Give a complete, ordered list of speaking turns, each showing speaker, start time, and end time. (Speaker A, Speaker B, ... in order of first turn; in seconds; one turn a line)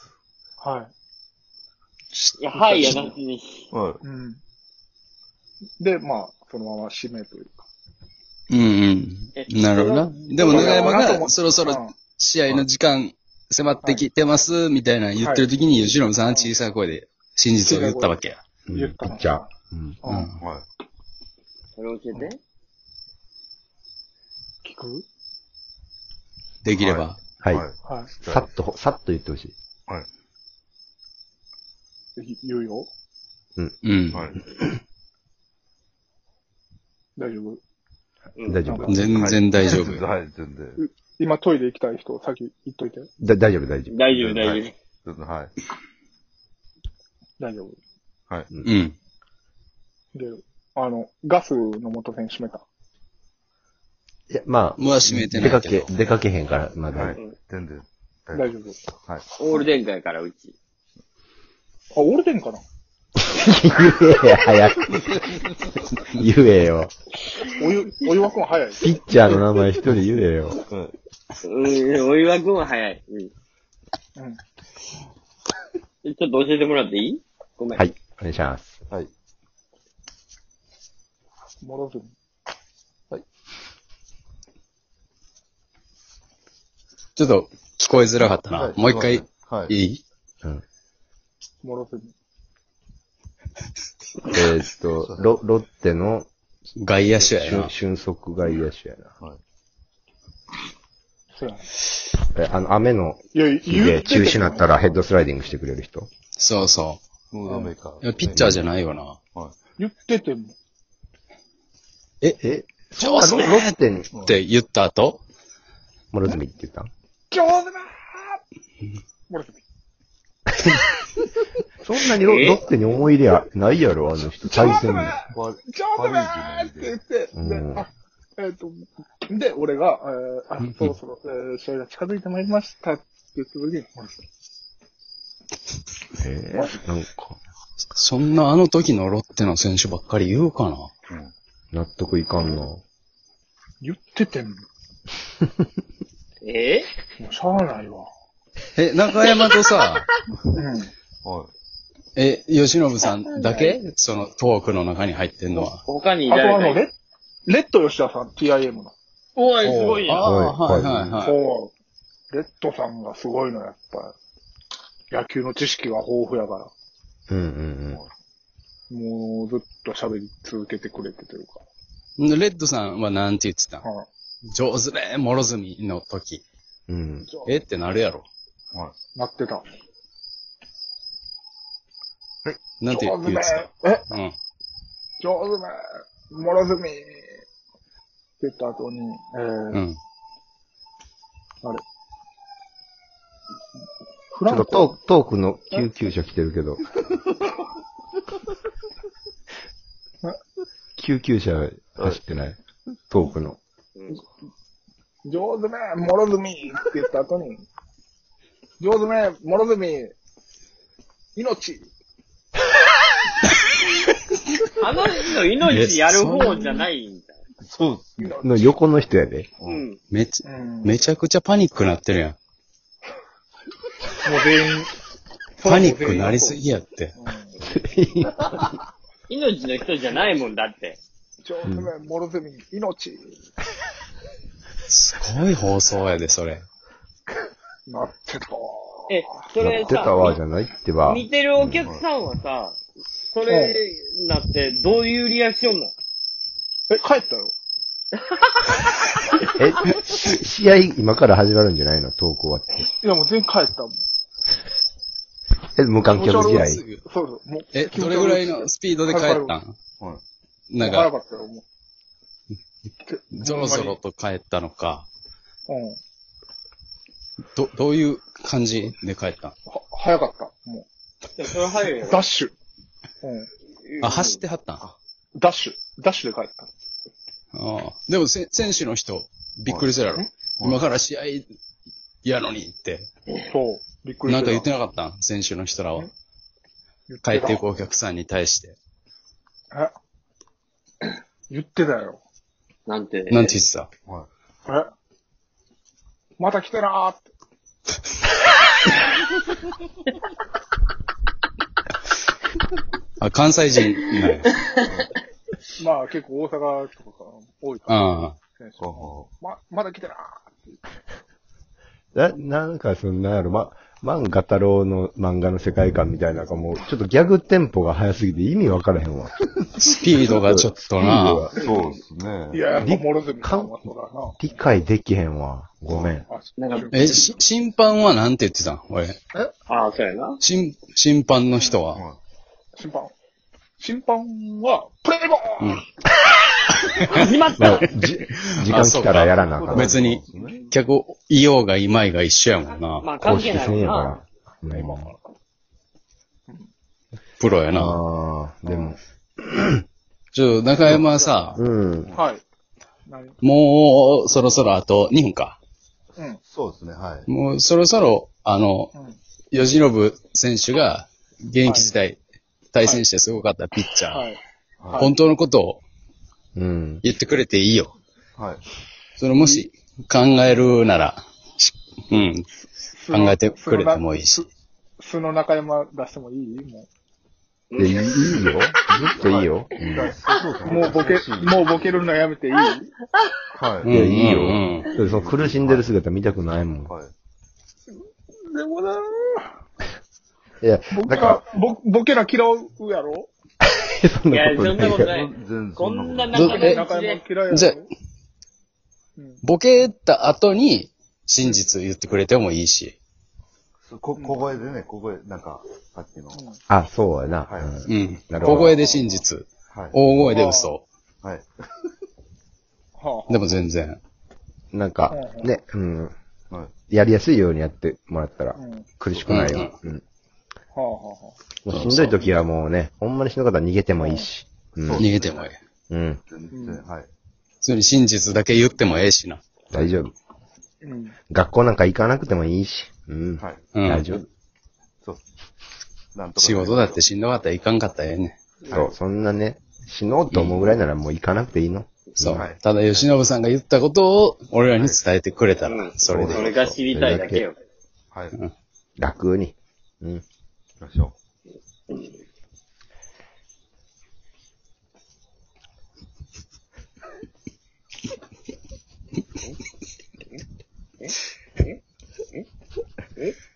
Speaker A: 0.6-0.9
Speaker B: 2.1-3.0
Speaker C: 2.4-3.7
Speaker A: 2.6-3.0
Speaker D: 3.7-4.0
Speaker A: 4.0-4.4
Speaker A: 5.8-7.7
Speaker B: 8.5-18.4
Speaker C: 9.3-11.1
Speaker A: 10.4-11.9
Speaker A: 15.2-15.5
Speaker A: 17.6-19.5
Speaker E: 18.7-20.0
Speaker A: 20.0-20.3
Speaker B: 20.1-20.4
Speaker D: 20.4-20.6
Speaker C: 21.8-22.4
Speaker A: 24.6-25.1
Speaker B: 26.6-27.2
Speaker D: 26.7-28.5
Speaker E: 27.4-27.6
Speaker A: 27.8-28.1
Speaker E: 28.2-29.5
Speaker A: 32.1-32.9
Speaker B: 33.8-34.3
Speaker D: 34.1-34.4
Speaker A: 37.1-37.6
Speaker C: 38.4-38.7
Speaker E: 38.4-39.1
Speaker A: 38.6-39.1
Speaker B: 38.8-40.0
Speaker D: 39.0-40.8
Speaker A: 40.8-43.1
Speaker E: 43.2-44.0
Speaker C: 43.9-44.7
Speaker D: 44.1-45.5
Speaker A: 47.4-47.8
Speaker B: 48.6-49.0
Speaker A: 50.1-52.6
Speaker E: 54.3-57.2
Speaker B: 54.8-55.9
Speaker D: 56.9-58.5
Speaker A: 58.3-58.8
Speaker C: 59.4-60.5
Speaker A: 61.9-62.6
Speaker E: 63.2-65.2
Speaker E: 66.0-66.9
Speaker A: 67.4-68.9
Speaker E: 68.8-70.6
Speaker D: 70.6-70.9
Speaker C: 71.4-73.3
Speaker A: 74.2-74.4
Speaker C: 76.0-77.8
Speaker E: 77.7-78.8
Speaker A: 81.6-82.1
Speaker B: 87.2-90.0
Speaker D: 88.5-89.7
Speaker A: 91.6-92.1
Speaker E: 94.3-96.3
Speaker D: 95.0-95.3
Speaker B: 96.8-97.7
Speaker E: 97.2-99.1
Speaker A: 101.3-101.7
Speaker E: 102.3-106.1
Speaker A: 103.3-104.7
Speaker B: 106.3-107.0
Speaker D: 107.3-108.6
Speaker B: 108.0-109.2
Speaker E: 108.3-108.6
Speaker A: 109.8-110.5
Speaker E: 112.4-114.1
Speaker B: 113.0-115.2
Speaker E: 116.1-116.9
Speaker A: 117.3-118.4
Speaker A: 119.3-119.6
Speaker E: 121.8-125.2
Speaker C: 122.2-122.7
Speaker A: 124.4-134.2
Speaker D: 125.3-127.0
Speaker E: 127.3-127.9
Speaker B: 130.6-130.9
Speaker E: 136.2-137.4
Speaker A: 136.5-136.8
Speaker B: 137.9-140.9
Speaker D: 141.1-141.3
Speaker E: 141.7-142.8
Speaker A: 142.4-142.6
Speaker A: 143.8-144.6
Speaker C: 146.4-146.9
Speaker A: 147.2-148.1
Speaker B: 148.7-150.1
Speaker A: 150.6-150.9
Speaker D: 151.2-151.5
Speaker B: 152.1-155.8
Speaker C: 153.4-153.8
Speaker C: 155.8-156.8
Speaker A: 156.3-156.9
Speaker A: 157.4-158.9
Speaker C: 159.3-160.2
Speaker B: 159.6-161.4
Speaker E: 160.2-161.2
Speaker A: 161.2-161.7
Speaker A: 162.3-164.1
Speaker A: 165.1-166.7
Speaker E: 167.3-168.0
Speaker A: 168.9-171.6
Speaker B: 172.2-173.8
Speaker B: 174.4-176.4
Speaker E: 176.9-177.3
Speaker A: 177.3-177.6
Speaker B: 177.4-178.3
Speaker A: 179.1-179.7
Speaker B: 182.8-184.3
Speaker A: 182.9-184.1
Speaker A: 185.2-187.4
Speaker A: 188.4-189.8
Speaker B: 189.7-190.0
Speaker A: 194.3-194.9
Speaker E: 194.4-196.8
Speaker E: 201.0-202.6
Speaker E: 203.1-203.6
Speaker C: 203.9-204.2
Speaker A: 205.2-207.6
Speaker A: 208.8-210.1
Speaker A: 211.3-211.9
Speaker C: 214.8-217.4
Speaker B: 215.6-216.8
Speaker D: 217.6-218.4
Speaker A: 218.2-218.8
Speaker E: 218.4-219.5
Speaker D: 219.6-219.8
Speaker C: 219.6-220.0
Speaker B: 220.1-222.4
Speaker A: 220.4-220.9
Speaker A: 224.2-224.9
Speaker A: 225.6-226.6
Speaker B: 225.6-227.1
Speaker A: 227.1-227.6
Speaker E: 227.6-228.6
Speaker C: 229.3-231.0
Speaker A: 231.4-233.4
Speaker E: 231.6-231.9
Speaker B: 234.9-236.6
Speaker A: 237.9-239.5
Speaker C: 239.1-240.4
Speaker E: 239.6-241.9
Speaker C: 241.0-242.8
Speaker D: 241.8-242.0
Speaker C: 243.3-245.9
Speaker A: 243.5-243.8
Speaker A: 246.9-247.5
Speaker C: 248.2-248.8
Speaker E: 249.5-252.9
Speaker A: 253.0-254.0
Speaker E: 255.8-256.8
Speaker A: 256.1-259.5
Speaker B: 256.4-257.0
Speaker B: 257.7-259.7
Speaker B: 260.7-261.1
Speaker A: 260.8-261.6
Speaker A: 263.0-264.0
Speaker B: 263.3-265.1
Speaker A: 265.7-266.0
Speaker B: 267.5-269.5
Speaker A: 269.7-270.9
Speaker C: 271.4-272.2
Speaker A: 272.0-272.5
Speaker A: 273.2-273.5
Speaker C: 273.8-274.4
Speaker B: 274.0-274.8
Speaker A: 275.3-276.7
Speaker B: 277.5-281.4
Speaker D: 279.7-279.9
Speaker D: 280.6-280.8
Speaker B: 282.2-283.1
Speaker A: 283.5-284.7
Speaker B: 284.2-286.1
Speaker A: 287.1-287.6
Speaker B: 287.2-288.8
Speaker A: 291.5-292.2
Speaker C: 292.9-293.6
Speaker B: 293.3-293.9
Speaker A: 296.4-297.3
Speaker B: 303.2-304.6
Speaker C: 304.6-305.1
Speaker A: 305.8-310.8
Speaker B: 307.9-308.4
Speaker D: 308.8-309.3
Speaker E: 312.1-319.5
Speaker B: 319.8-321.5
Speaker E: 320.2-321.6
Speaker D: 321.6-322.7
Speaker C: 321.6-321.9
Speaker A: 322.5-324.5
Speaker E: 322.7-323.8
Speaker E: 324.4-326.2
Speaker D: 325.9-326.2
Speaker A: 326.2-327.3
Speaker C: 326.6-327.1
Speaker B: 326.9-329.2
Speaker C: 329.7-330.4
Speaker B: 330.4-332.0
Speaker A: 331.5-331.8
Speaker D: 331.9-332.2
Speaker A: 332.8-333.1
Speaker A: 333.8-335.8
Speaker B: 335.6-335.8
Speaker B: 336.9-337.9
Speaker C: 337.1-338.0
Speaker E: 337.6-340.0
Speaker B: 338.4-343.1
Speaker D: 339.4-340.7
Speaker C: 343.0-344.2
Speaker E: 343.2-345.1
Speaker A: 344.7-345.1
Speaker B: 347.4-348.0
Speaker E: 347.7-349.0
Speaker A: 348.6-349.0
Speaker E: 349.5-349.8
Speaker B: 350.3-351.6
Speaker D: 350.8-351.4
Speaker E: 351.6-352.1
Speaker A: 352.1-352.4
Speaker A: 353.1-353.4
Speaker B: 353.4-355.6
Speaker D: 356.4-357.3
Speaker B: 357.3-358.9
Speaker A: 358.9-359.2
Speaker B: 359.5-362.2
Speaker A: 361.6-361.9
Speaker B: 362.7-364.2
Speaker A: 364.1-364.4
Speaker D: 364.8-365.1
Speaker B: 364.9-365.8
Speaker E: 366.6-367.0
Speaker B: 367.0-367.9
Speaker D: 368.4-368.6
Speaker B: 369.2-372.5
Speaker A: 369.3-369.7
Speaker A: 370.4-370.7
Speaker A: 372.6-376.9
Speaker B: 373.1-374.4
Speaker C: 377.7-378.5
Speaker E: 377.8-380.1
Speaker D: 379.1-382.1
Speaker A: 379.9-382.9
Speaker D: 383.6-384.0
Speaker B: 383.8-384.9
Speaker E: 383.8-386.9
Speaker D: 384.9-385.9
Speaker D: 386.8-387.1
Speaker A: 388.4-389.5
Speaker E: 390.6-391.4
Speaker A: 390.9-393.3
Speaker E: 393.8-395.1
Speaker C: 394.3-397.2
Speaker D: 394.9-396.6
Speaker B: 396.3-396.9
Speaker A: 396.4-397.9
Speaker B: 397.5-397.8
Speaker A: 399.1-399.4
Speaker B: 399.4-402.9
Speaker D: 403.8-406.4
Speaker A: 404.1-404.5
Speaker A: 406.3-406.6
Speaker E: 406.7-408.8
Speaker D: 407.5-407.8
Speaker B: 407.9-410.9
Speaker D: 408.4-408.7
Speaker A: 408.6-409.2
Speaker D: 409.7-410.2
Speaker A: 410.3-410.7
Speaker D: 411.2-411.5
Speaker A: 412.9-413.4
Speaker B: 413.3-414.0
Speaker E: 414.7-416.1
Speaker A: 415.1-415.5
Speaker E: 416.9-420.0
Speaker A: 418.5-418.9
Speaker D: 419.1-419.5
Speaker B: 419.3-419.7
Speaker A: 420.7-421.4
Speaker E: 421.6-425.1
Speaker B: 421.7-422.2
Speaker A: 424.0-424.3
Speaker D: 424.8-425.5
Speaker B: 425.0-425.6
Speaker E: 425.9-426.2
Speaker D: 426.2-427.1
Speaker A: 426.5-426.8
Speaker B: 427.6-429.4
Speaker E: 429.7-430.1
Speaker A: 430.8-431.2
Speaker E: 431.3-434.2
Speaker D: 433.4-433.7
Speaker B: 433.7-434.2
Speaker D: 436.1-437.0
Speaker B: 436.4-438.4
Speaker D: 438.6-439.0
Speaker E: 438.7-442.5
Speaker B: 440.3-440.7
Speaker B: 442.2-446.5
Speaker D: 442.3-443.0
Speaker D: 444.7-445.0
Speaker C: 445.7-447.6
Speaker D: 446.0-446.5
Speaker E: 446.3-447.4
Speaker D: 448.1-448.4
Speaker E: 449.0-450.2
Speaker D: 450.8-451.1
Speaker C: 461.0-461.8